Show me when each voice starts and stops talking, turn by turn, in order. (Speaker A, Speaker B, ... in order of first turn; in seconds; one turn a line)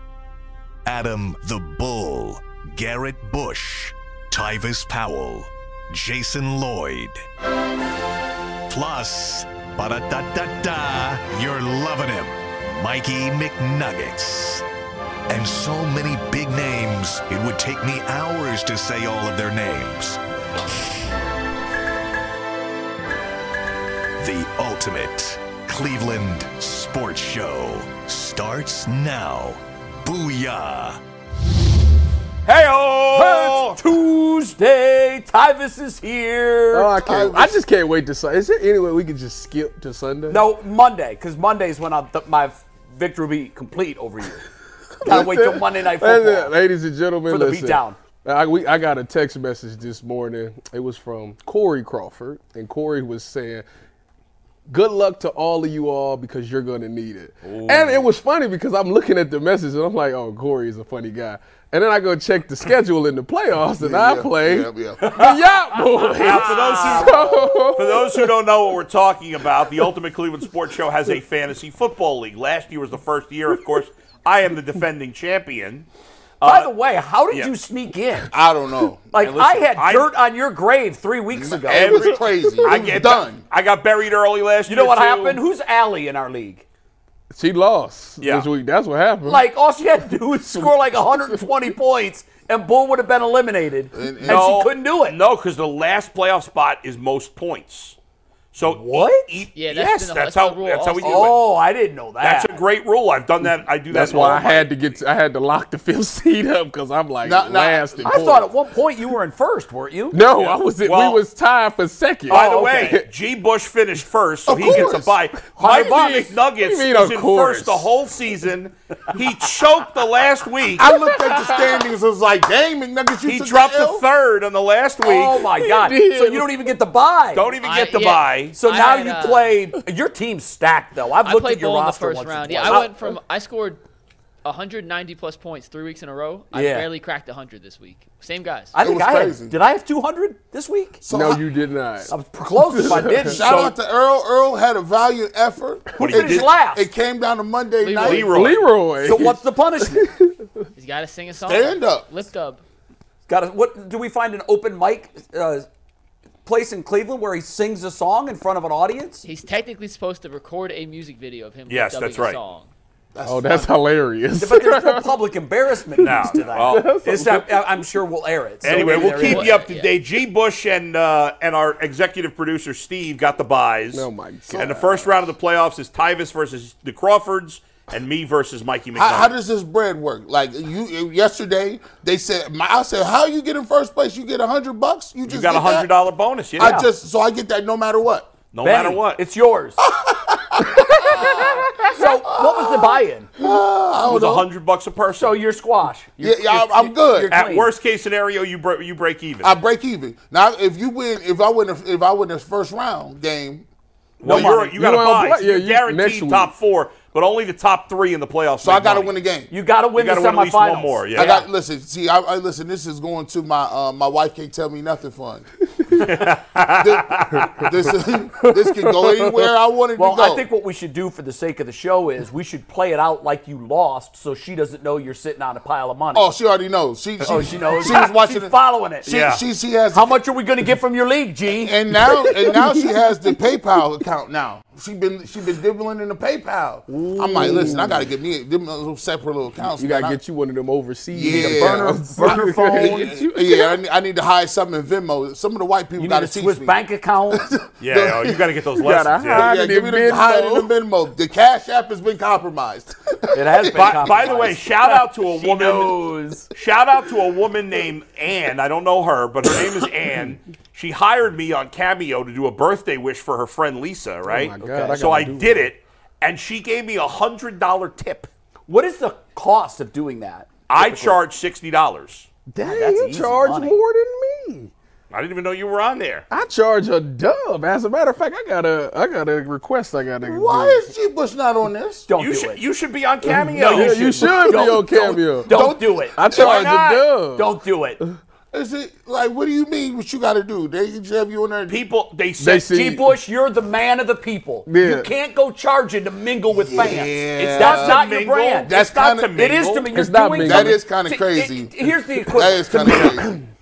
Speaker A: 0.8-7.2
Speaker A: 8.7-14.7
Speaker A: 15.3-20.2
Speaker A: 24.2-31.0
Speaker B: 32.5-33.8
Speaker C: 33.1-36.9
Speaker D: 36.7-40.4
Speaker E: 37.0-37.5
Speaker C: 40.3-44.4
Speaker D: 45.0-53.6
Speaker C: 45.0-46.5
Speaker C: 47.3-48.0
Speaker D: 54.7-68.3
Speaker B: 57.4-58.1
Speaker E: 63.8-65.0
Speaker C: 66.2-67.7
Speaker B: 66.2-75.9
Speaker B: 76.4-76.7
Speaker C: 76.4-78.3
Speaker E: 78.3-79.1
Speaker C: 79.1-82.2
Speaker B: 79.2-80.1
Speaker E: 81.3-83.4
Speaker B: 81.7-85.4
Speaker C: 84.7-86.6
Speaker D: 87.3-89.5
Speaker B: 88.2-88.5
Speaker C: 89.2-95.2
Speaker D: 90.5-90.7
Speaker E: 93.9-94.6
Speaker B: 94.3-98.0
Speaker B: 98.5-101.4
Speaker C: 98.6-99.3
Speaker F: 99.5-101.3
Speaker C: 101.0-102.6
Speaker B: 102.2-104.7
Speaker D: 103.9-108.5
Speaker E: 107.2-108.0
Speaker C: 108.0-110.3
Speaker D: 110.1-113.1
Speaker B: 110.4-111.2
Speaker C: 112.3-113.0
Speaker B: 112.3-120.9
Speaker E: 114.5-115.1
Speaker C: 115.6-116.2
Speaker D: 115.7-117.9
Speaker E: 120.8-124.1
Speaker D: 120.8-121.8
Speaker B: 123.2-125.5
Speaker C: 125.0-127.5
Speaker D: 125.6-126.7
Speaker B: 127.3-128.6
Speaker F: 127.6-129.6
Speaker C: 128.6-132.9
Speaker F: 131.2-133.8
Speaker F: 134.4-138.7
Speaker C: 136.5-136.9
Speaker C: 138.7-141.0
Speaker E: 138.8-139.6
Speaker E: 141.0-141.4
Speaker D: 141.1-143.4
Speaker C: 142.1-143.8
Speaker E: 143.3-148.4
Speaker B: 146.0-146.5
Speaker C: 146.0-146.9
Speaker F: 147.8-148.3
Speaker B: 148.0-148.7
Speaker D: 148.2-150.3
Speaker C: 149.0-150.1
Speaker F: 150.8-152.6
Speaker E: 151.4-152.1
Speaker C: 153.3-155.7
Speaker C: 156.4-159.2
Speaker F: 159.2-162.7
Speaker B: 161.7-162.4
Speaker E: 163.1-163.7
Speaker D: 163.2-165.2
Speaker C: 164.4-169.6
Speaker B: 166.0-167.3
Speaker D: 166.0-167.7
Speaker B: 168.6-179.3
Speaker F: 169.0-169.9
Speaker D: 173.9-175.0
Speaker E: 178.9-185.9
Speaker B: 185.3-186.8
Speaker E: 186.6-188.3
Speaker C: 186.6-186.9
Speaker B: 188.5-189.2
Speaker C: 188.6-189.8
Speaker E: 189.9-194.5
Speaker C: 190.9-193.3
Speaker B: 194.1-195.4
Speaker C: 195.2-197.7
Speaker E: 196.2-197.3
Speaker B: 197.3-199.6
Speaker E: 199.4-203.7
Speaker B: 204.2-209.1
Speaker C: 204.2-204.8
Speaker D: 204.7-206.5
Speaker E: 208.6-209.5
Speaker C: 209.5-211.4
Speaker B: 209.9-211.3
Speaker E: 211.2-215.5
Speaker B: 215.9-217.5
Speaker E: 216.7-220.5
Speaker D: 218.4-219.5
Speaker C: 220.0-226.3
Speaker E: 226.1-230.1
Speaker C: 227.2-229.2
Speaker B: 229.1-229.4
Speaker C: 229.9-231.8
Speaker E: 231.6-240.2
Speaker D: 232.5-232.9
Speaker D: 236.9-238.1
Speaker D: 239.8-243.8
Speaker E: 241.1-246.8
Speaker C: 241.3-243.2
Speaker C: 246.0-247.5
Speaker E: 247.3-248.4
Speaker B: 247.8-249.5
Speaker D: 248.8-250.7
Speaker E: 249.3-254.0
Speaker C: 253.3-256.5
Speaker B: 253.7-268.3
Speaker D: 264.3-265.7
Speaker C: 264.6-265.3
Speaker C: 268.7-271.2
Speaker B: 270.7-272.3
Speaker D: 272.5-274.7
Speaker C: 272.6-273.8
Speaker B: 275.1-276.2
Speaker D: 276.3-280.8
Speaker E: 280.2-282.1
Speaker C: 282.1-282.6
Speaker B: 282.2-284.5
Speaker D: 283.4-288.1
Speaker C: 283.6-288.0
Speaker E: 285.5-286.8
Speaker E: 288.5-291.8
Speaker B: 291.7-292.7
Speaker D: 292.4-293.1
Speaker C: 292.7-303.3
Speaker D: 294.7-295.1
Speaker E: 296.5-298.1
Speaker B: 297.4-299.9
Speaker E: 298.6-299.5
Speaker D: 299.9-300.8
Speaker E: 300.4-303.3